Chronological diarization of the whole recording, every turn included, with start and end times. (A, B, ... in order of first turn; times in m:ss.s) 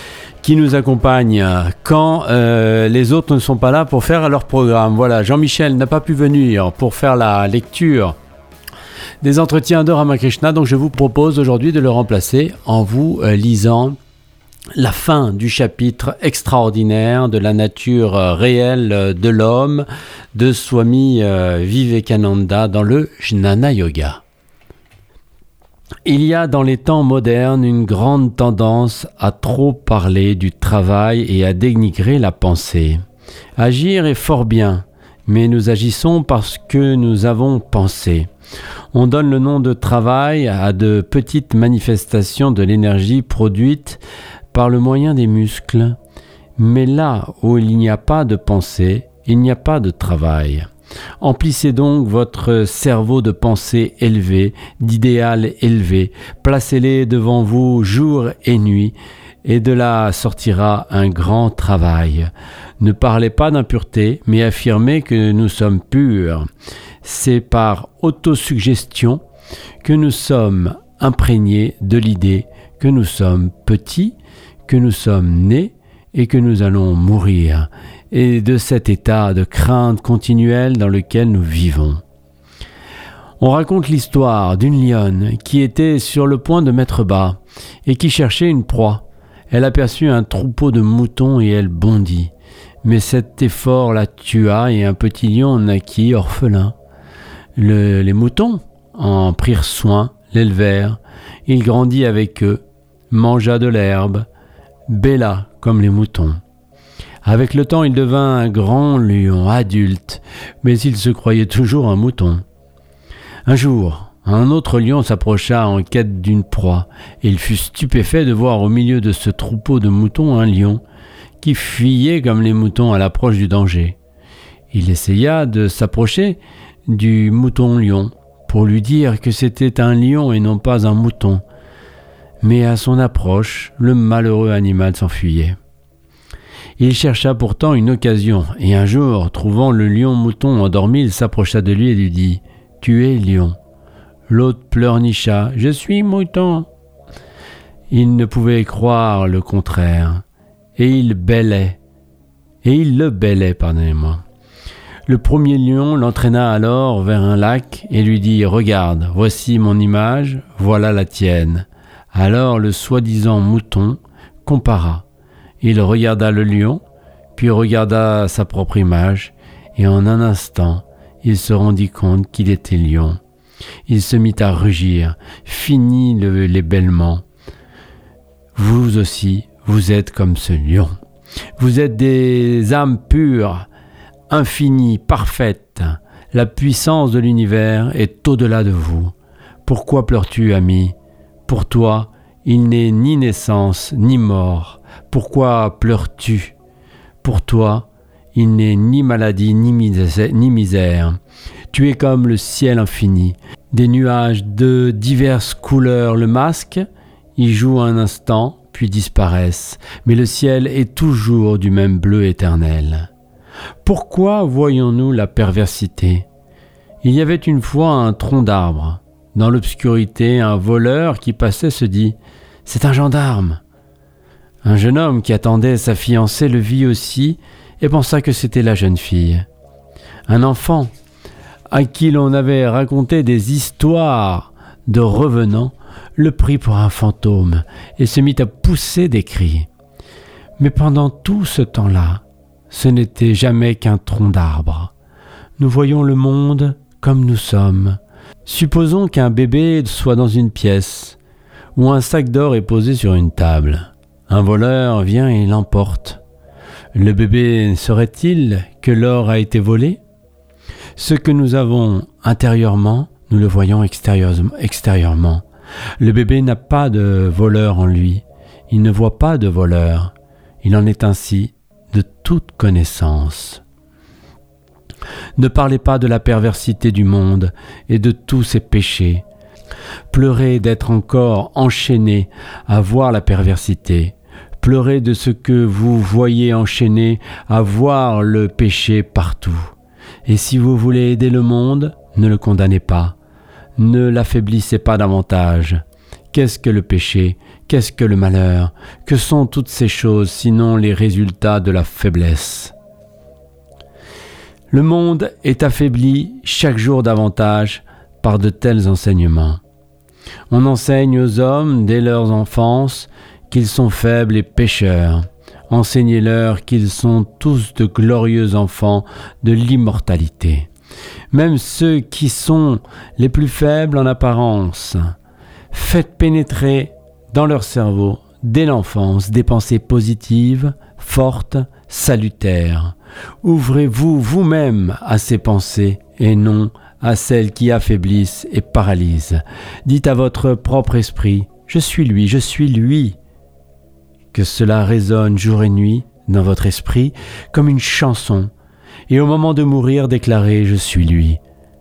0:00.4-0:08.2 A
0:09.2-0:14.0 A
0:14.8-0:24.2 A
0:26.0-0:33.0 A
0:33.6-0:38.3 A
0:38.9-0:44.0 A
0:44.5-0:46.0 A
0:46.6-0:50.7 A
0:51.2-1:06.4 A
1:07.0-1:09.2 A
1:09.8-1:22.0 A
1:23.4-1:32.3 A
1:32.8-1:36.7 A
1:37.6-1:44.2 A
1:44.9-1:46.4 A
1:47.2-1:52.4 A
1:53.4-2:00.8 A
2:01.4-2:04.0 A
2:04.7-2:11.4 A
2:12.4-2:15.6 A
2:16.8-2:23.6 A
2:24.3-2:26.7 A
2:27.9-2:30.2 A
2:30.8-2:31.8 A
2:32.6-2:34.2 A
2:35.0-2:45.0 A
2:45.6-2:46.8 A
2:47.4-2:53.2 A
2:53.9-2:57.2 A
2:58.6-3:00.9 A
3:01.6-3:03.7 A
3:04.3-3:09.1 A
3:09.6-3:10.9 A
3:11.4-3:16.5 A
3:17.2-3:21.2 A
3:21.7-3:26.8 A
3:27.4-3:33.1 A
3:33.8-3:36.2 A
3:37.0-3:43.6 A
3:44.6-3:49.4 A
3:50.3-3:50.9 A
3:51.7-3:59.7 A
4:00.6-4:04.9 A
4:05.6-4:11.2 A
4:11.7-4:16.2 A
4:16.9-4:20.0 A
4:21.0-4:25.4 A
4:26.0-4:33.6 A
4:35.4-4:39.2 A
4:40.1-4:49.7 A
4:50.2-4:53.2 A
4:53.8-4:55.8 A
4:56.3-5:02.7 A
5:04.7-5:09.6 A
5:10.5-5:20.7 A
5:21.3-5:25.1 A
5:25.7-5:43.2 A
5:44.3-5:48.5 A
5:49.1-5:51.4 A